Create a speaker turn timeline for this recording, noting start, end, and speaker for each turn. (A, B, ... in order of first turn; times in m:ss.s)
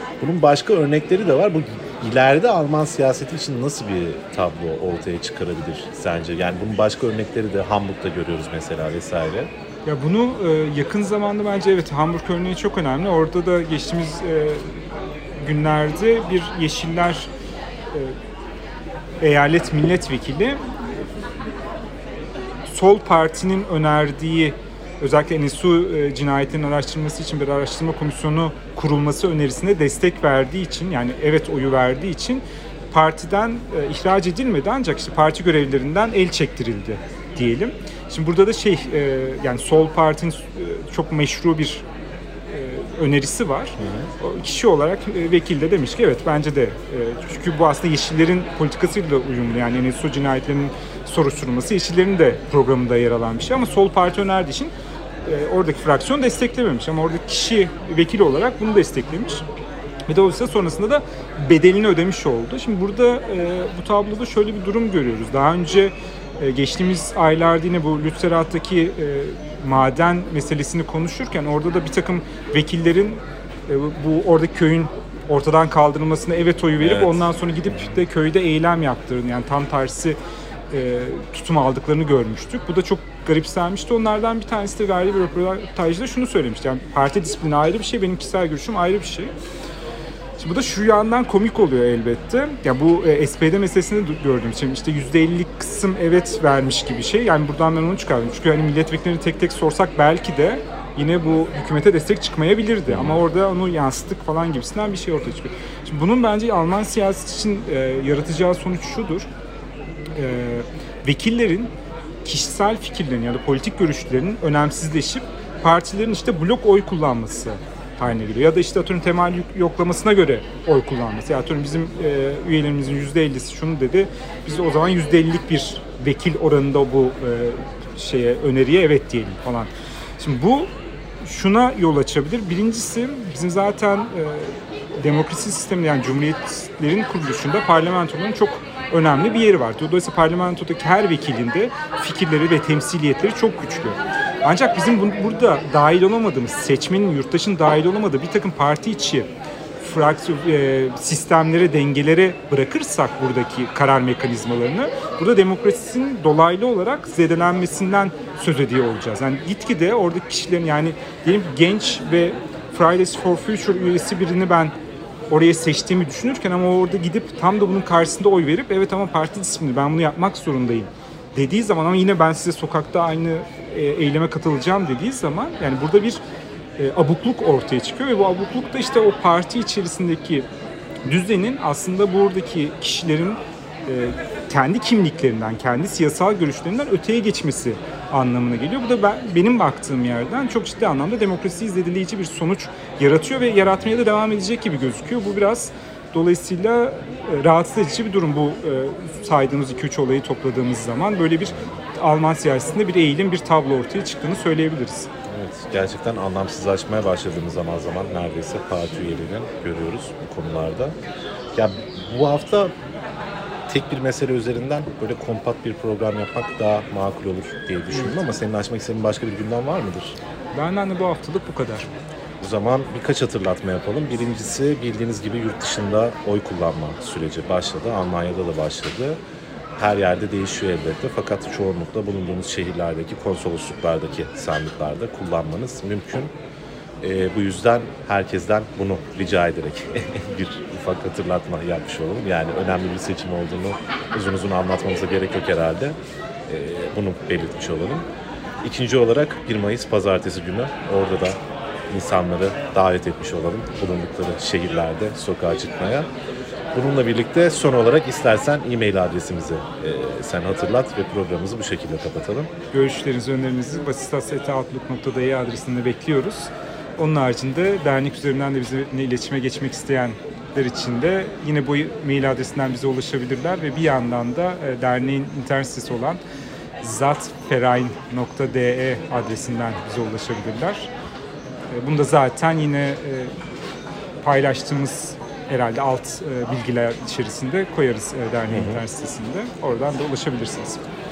0:00.2-0:09.5 A
0:09.8-0:17.3 B
0:19.2-0:21.0 B
0:22.7-0:41.8 B
0:42.5-0:54.7 B
0:43.8-0:44.1 A
0:55.2-0:59.4 B
1:00.1-1:20.2 B
1:16.8-1:17.3 A
1:20.7-1:29.3 B
1:30.4-1:49.3 B
1:42.9-1:43.2 A
1:50.2-1:51.7 B
1:52.2-2:10.7 B
2:11.2-2:44.7 B
2:45.3-2:56.2 B
2:56.8-3:00.5 B
3:01.0-3:25.1 B
3:25.3-3:31.0 A
3:31.5-3:32.7 A
3:33.7-3:40.2 A
3:37.9-3:38.2 B
3:40.5-3:41.9 B
3:42.4-3:49.2 A
3:49.8-3:56.3 A
3:57.0-4:06.0 A
4:06.5-4:08.1 A
4:08.6-4:11.4 A
4:11.9-4:16.1 A
4:16.7-4:22.5 A
4:22.7-4:36.2 B
4:36.8-4:40.9 B
4:41.7-4:43.3 B
4:44.2-4:50.8 B
4:48.5-4:48.8 A